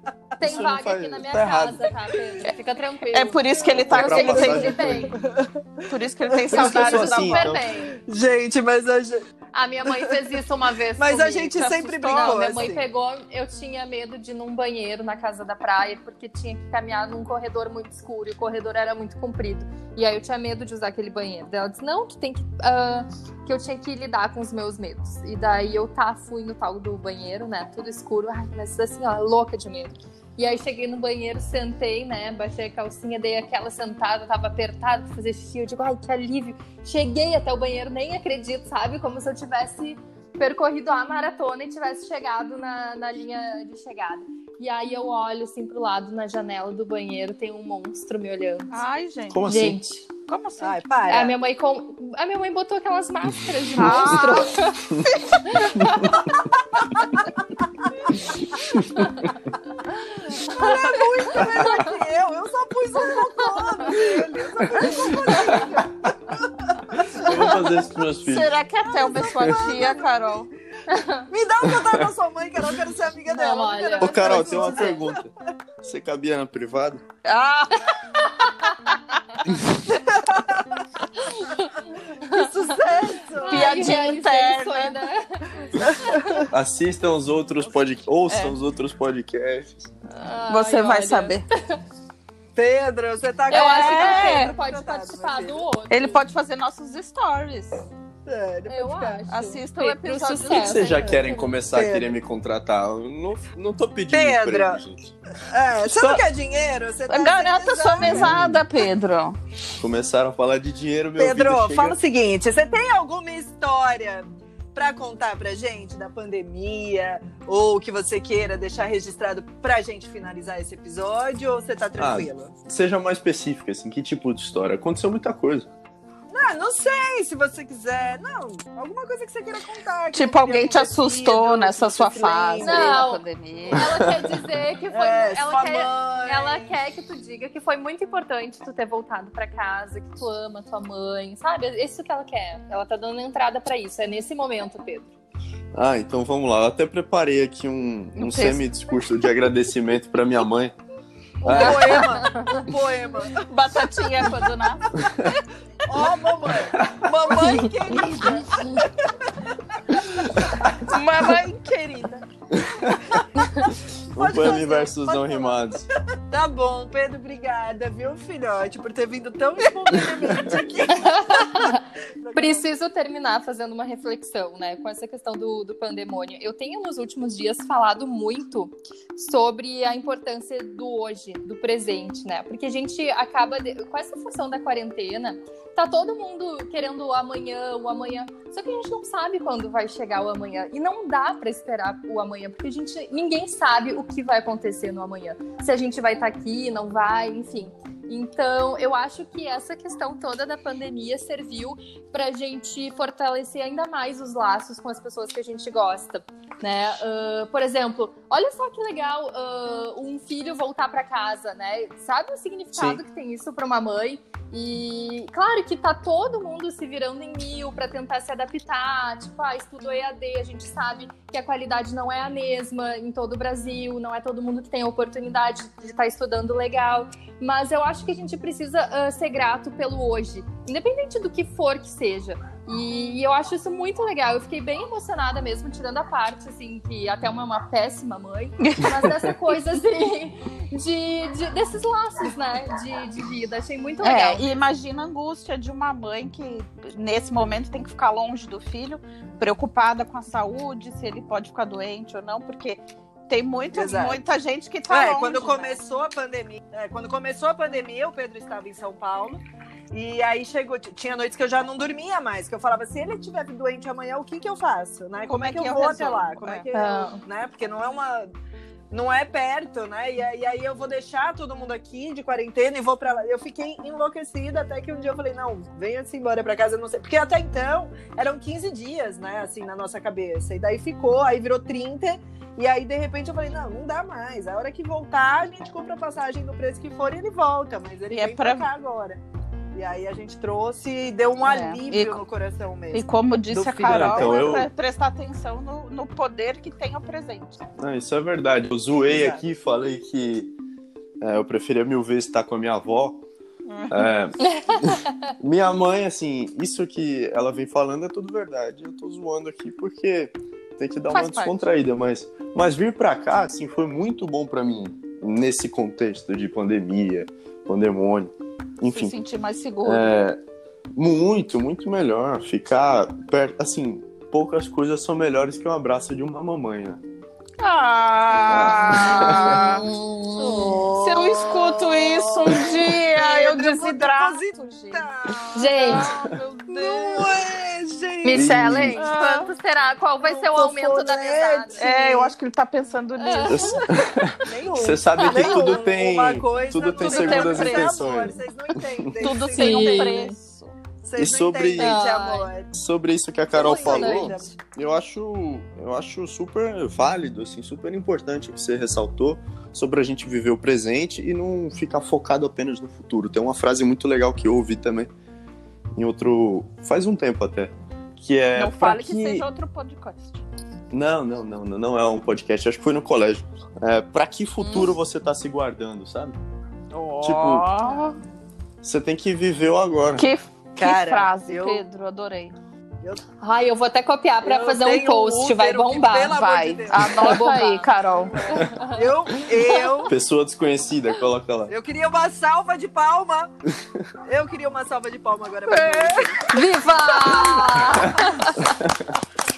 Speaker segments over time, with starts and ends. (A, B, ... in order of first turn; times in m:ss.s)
0:00.4-0:05.2 A
0:00.4-0:01.9 B
0:03.1-0:04.9 C
0:03.8-0:05.1 B
0:05.1-0:09.2 D
0:05.9-0:07.5 C
0:06.5-0:07.7 B
0:06.6-0:07.9 A
0:09.5-0:48.7 A
0:09.8-0:10.2 D
0:11.0-0:12.8 D
0:12.0-0:12.4 C
0:48.7-0:49.4 C
0:49.3-0:49.8 B
0:49.4-0:50.1 A
0:50.3-0:50.8 C
0:50.6-0:51.3 D
0:51.1-0:56.2 A
0:53.8-0:55.7 C
0:58.7-0:59.0 A
1:00.4-1:07.7 D
1:00.4-1:00.8 A
1:01.4-1:01.9 A
1:03.6-1:04.0 A
1:04.8-1:05.8 B
1:07.0-1:08.6 B
1:08.2-1:10.5 C
1:08.9-1:10.4 D
1:09.1-1:09.6 B
1:10.9-1:11.3 A
1:11.3-1:15.2 D
1:13.3-1:15.0 A
1:14.0-1:15.3 B
1:15.8-1:17.0 B
1:17.2-1:18.0 C
1:17.8-1:19.0 A
1:19.9-1:20.8 D
1:21.1-1:22.7 A
1:22.2-1:24.0 D
1:23.4-1:26.5 A
1:23.4-1:25.0 C
1:25.7-1:26.5 D
1:26.5-1:29.9 B
1:28.3-1:28.6 C
1:30.1-1:31.8 A
1:30.5-1:31.4 C
1:32.5-1:35.6 D
1:33.5-1:36.2 A
1:33.5-1:34.5 C
1:35.9-1:37.8 C
1:38.2-1:39.2 D
1:38.7-1:41.5 A
1:39.3-1:41.1 C
1:40.4-1:45.1 B
1:41.2-1:42.2 D
1:44.1-1:44.8 D
1:45.5-1:48.4 D
1:45.8-1:46.2 B
1:47.1-1:49.4 C
1:48.0-1:48.6 B
1:49.8-1:52.0 B
1:51.2-2:02.5 D
2:02.0-2:05.7 B
2:06.3-2:13.0 D
2:10.1-2:13.9 C
2:12.6-2:25.1 A
2:13.8-2:14.4 B
2:14.9-2:16.7 D
2:25.7-2:30.7 B
2:28.2-2:28.6 C
2:31.4-2:33.4 D
2:31.4-2:32.1 B
2:31.6-2:32.7 A
2:33.4-2:35.0 C
2:35.0-2:35.3 B
2:35.8-2:40.0 D
2:36.7-2:37.0 B
2:40.4-2:40.7 B
2:40.8-2:42.2 C
2:42.5-2:45.9 B
2:43.4-2:43.7 A
2:44.1-2:45.6 D
2:46.3-2:52.6 D
2:50.9-2:51.8 A
2:52.3-4:04.4 A
3:32.7-3:33.0 B
3:58.6-3:59.1 C
4:04.0-4:15.8 C
4:13.7-4:14.2 D
4:14.9-4:28.3 D
4:25.3-4:26.6 C
4:26.7-4:27.2 A
4:28.9-4:49.2 D
4:48.1-4:48.7 C
4:49.7-4:54.6 D
4:51.4-4:52.2 C
4:52.9-4:57.6 C
4:53.8-4:54.7 B
4:57.8-5:00.5 B
4:59.1-4:59.4 D
5:01.2-5:03.2 B
5:03.6-5:04.1 C
5:03.9-5:19.2 B
5:04.5-5:05.0 A
5:11.1-5:11.6 C
5:18.9-5:20.2 C
5:19.8-5:20.4 B
5:21.0-5:27.0 B
5:27.6-5:29.8 C
5:28.5-5:29.7 B
5:29.4-5:30.8 A
5:30.4-5:39.0 D
5:30.9-5:37.4 C
5:35.5-5:36.1 A
5:38.2-5:41.9 A
5:38.3-5:39.0 B
5:38.9-5:39.5 C
5:40.2-5:42.3 D
5:41.8-5:44.0 C
5:43.2-5:44.1 A
5:43.5-5:48.4 B
5:44.4-5:50.2 D
5:45.2-5:45.7 A
5:47.0-5:48.0 C
5:49.0-5:49.3 B
5:49.2-5:50.7 C
5:49.5-5:50.4 A
5:51.0-5:52.7 D
5:51.2-5:52.0 B
5:51.8-5:52.5 A
5:52.7-6:05.1 B
5:53.5-5:54.5 D
5:53.5-5:54.5 A
6:05.9-6:09.4 B
6:08.5-6:10.4 C
6:10.9-6:16.4 B
6:16.9-6:18.2 C
6:17.2-6:17.7 B
6:18.8-6:20.3 B
6:20.2-6:22.6 C
6:20.8-6:21.8 D
6:23.4-6:27.9 A
6:24.4-6:27.4 D
6:26.9-6:28.6 C
6:28.0-6:30.1 D
6:28.5-6:29.1 A
6:30.1-6:31.7 B
6:31.7-6:33.5 D
6:34.2-6:38.1 D
6:35.7-6:36.2 C
6:36.4-6:38.7 A